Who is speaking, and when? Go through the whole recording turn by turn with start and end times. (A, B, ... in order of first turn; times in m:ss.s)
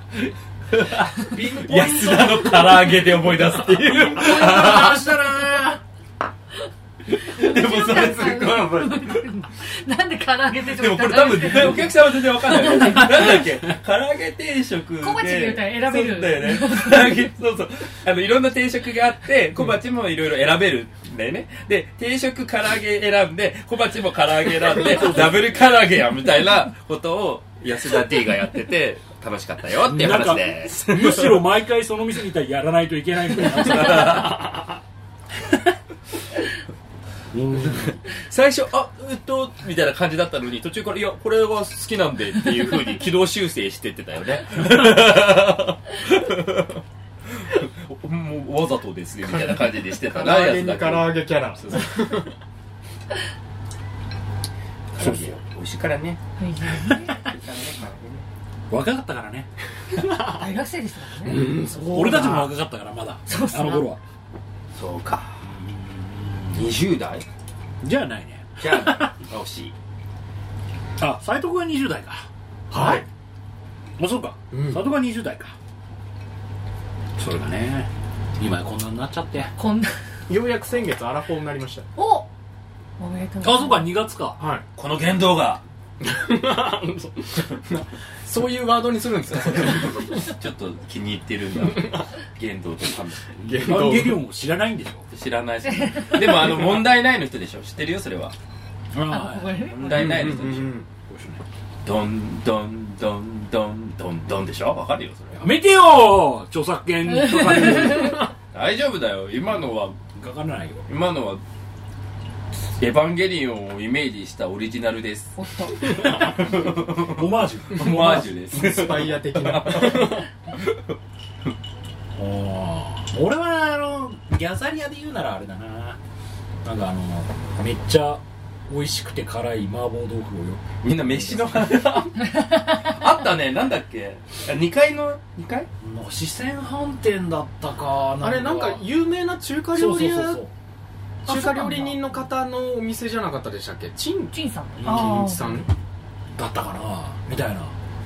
0:00.7-0:05.0 A
0:01.2-0:05.8 B
0:04.4-0:04.8 C
0:07.1-0:09.3 A
0:07.2-0:13.4 C
0:10.6-0:31.4 A
0:15.0-0:17.2 C
0:24.8-0:25.4 B
0:29.8-0:34.5 B
0:33.5-0:34.5 A
0:37.3-0:38.0 B
0:37.6-0:51.2 A
0:50.1-0:52.4 D
0:54.9-0:58.2 A
0:56.4-0:57.2 C
0:58.7-0:59.5 B
1:00.0-1:00.4 D
1:00.2-1:01.5 C
1:01.2-1:02.5 D
1:01.7-1:04.0 B
1:03.3-1:03.8 C
1:04.7-1:05.5 A
1:05.4-1:06.6 B
1:06.5-1:07.3 A
1:07.8-1:09.1 B
1:08.6-1:09.8 A
1:11.0-1:12.3 B
1:12.7-1:13.1 D
1:12.8-1:13.0 B
1:14.0-1:15.6 B
1:14.5-1:14.8 D
1:17.2-1:19.5 B
1:19.6-1:20.0 C
1:20.3-1:21.9 D
1:22.0-1:22.3 C
1:23.0-1:23.9 C
1:23.4-1:24.4 B
1:24.4-1:24.6 D
1:24.8-1:25.6 A
1:26.0-1:30.3 D
1:29.3-1:33.8 A
1:31.7-1:32.0 D
1:33.4-1:34.2 D
1:33.5-1:35.1 B
1:35.1-1:38.4 A
1:35.7-1:36.5 C
1:38.9-1:41.4 B
1:39.1-1:40.1 C
1:39.7-1:40.8 A
1:39.9-1:40.9 D
1:41.8-1:45.5 A
1:45.4-1:48.3 B
1:47.3-1:48.2 C
1:48.5-1:50.0 A
1:50.2-1:50.9 B
1:50.9-1:51.4 A
1:52.8-2:00.9 A
1:55.4-1:55.8 C
1:56.2-1:58.3 B
1:58.0-2:00.3 D
2:02.2-2:06.0 B
2:06.6-2:11.9 B
2:10.8-2:15.7 A
2:15.8-2:18.9 B
2:18.2-2:20.4 D
2:19.7-2:20.5 B
2:21.2-2:24.3 D
2:21.3-2:22.0 C
2:21.5-2:22.2 B
2:24.3-2:25.5 C
2:24.8-2:25.6 B
2:24.8-2:25.7 D
2:26.4-2:27.8 B